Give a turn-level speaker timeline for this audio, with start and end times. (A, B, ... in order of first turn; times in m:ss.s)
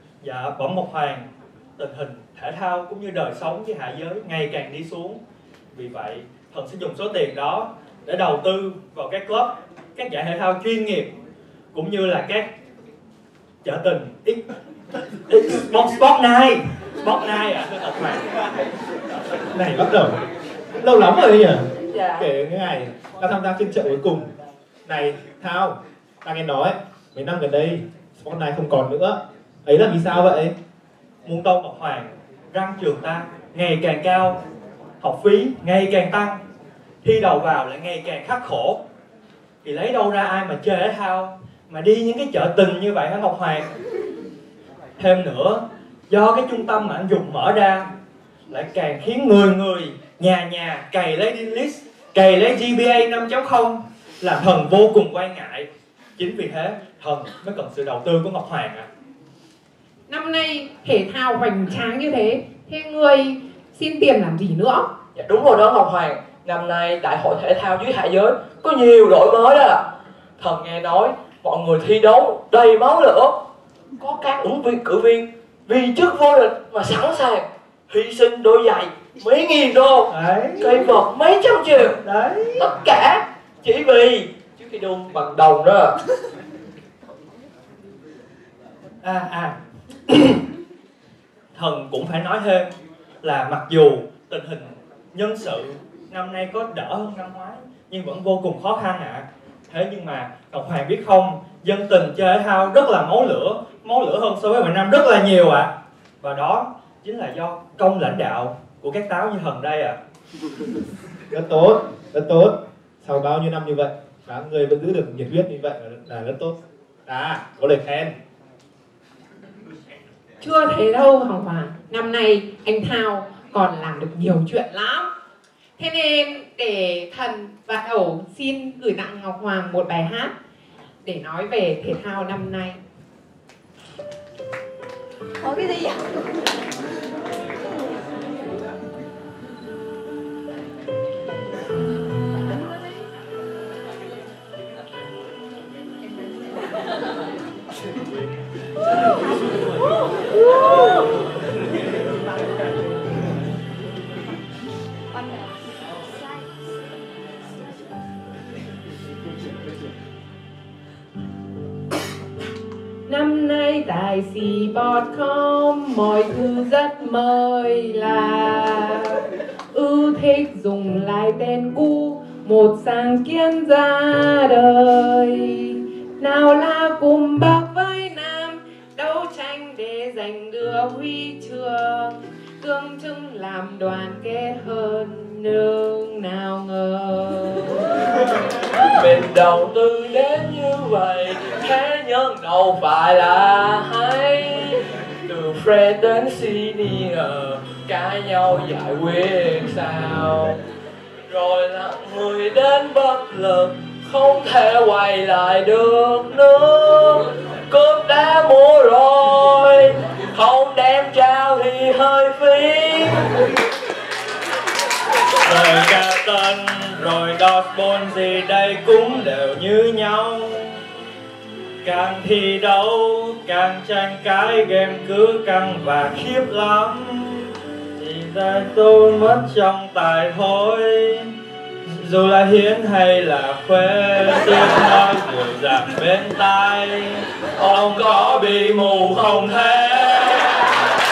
0:00.2-0:05.2 A
0:05.7-0:11.1 A
0:11.7-0:12.5 A
0:13.6-0:14.4 A
0:15.3-0:18.2 A
0:19.6-0:20.2 B
0:20.8-0:24.3 B
0:21.9-0:22.3 C
0:24.9-0:30.5 B
0:31.2-0:34.4 A
0:35.0-0:36.4 A
0:37.0-0:38.8 A
0:39.6-0:43.7 A
0:45.0-0:47.9 A
0:48.5-0:58.9 A
1:00.1-1:04.9 D
1:05.2-1:09.9 C
1:10.4-1:13.4 C
1:14.0-1:22.0 C
1:20.1-1:21.0 A
1:21.8-1:22.7 A
1:22.6-1:26.0 C
1:29.0-1:29.6 A
1:30.1-1:30.4 A
1:31.5-1:45.7 A
1:46.2-1:50.0 A
1:51.3-1:56.6 B
1:57.1-1:58.1 B
2:00.4-2:05.1 D
2:05.8-2:10.3 D
2:11.0-2:12.8 D
2:43.1-3:07.9 D
3:08.8-3:20.6 C
3:21.3-3:33.2 C
3:35.4-3:40.8 A
3:41.8-4:00.6 A
3:57.6-4:00.2 C